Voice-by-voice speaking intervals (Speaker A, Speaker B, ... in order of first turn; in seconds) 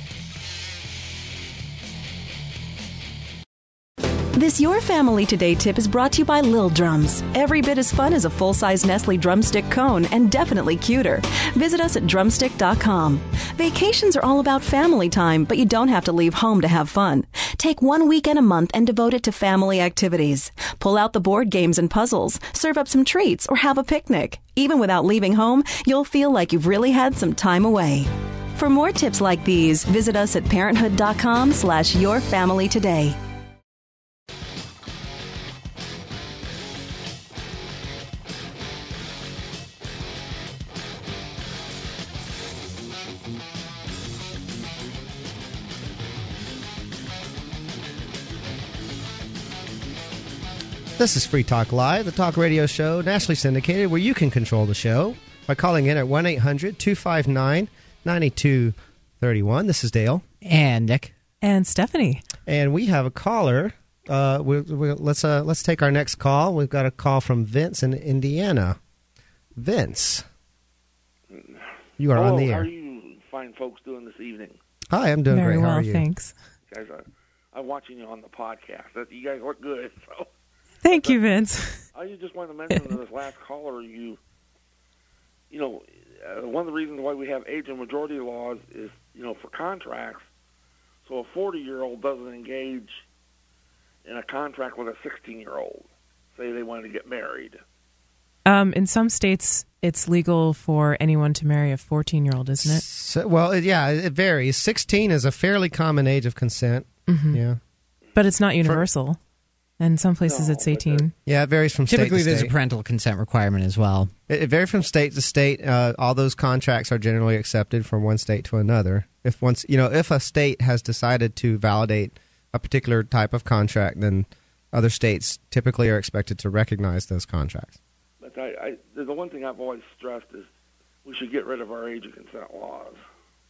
Speaker A: 4.3-33.2
Speaker B: 51.0-60.2, 62.5-68.8, 69.6-70.2, 72.0-72.7, 74.9-76.0, 102.6-107.6, 111.3-112.5, 114.3-127.8
Speaker C: 60.4-61.1, 111.9-114.1
Speaker D: 61.4-62.2, 75.3-76.3, 80.8-81.8, 98.5-102.8, 107.1-107.4, 108.2-109.2, 109.8-111.1
Speaker E: 71.3-74.6, 76.7-80.3, 80.9-81.2, 81.9-84.2, 85.5-90.3, 91.0-93.0, 94.0-97.6, 110.2-111.1, 128.2-130.5, 131.1-133.0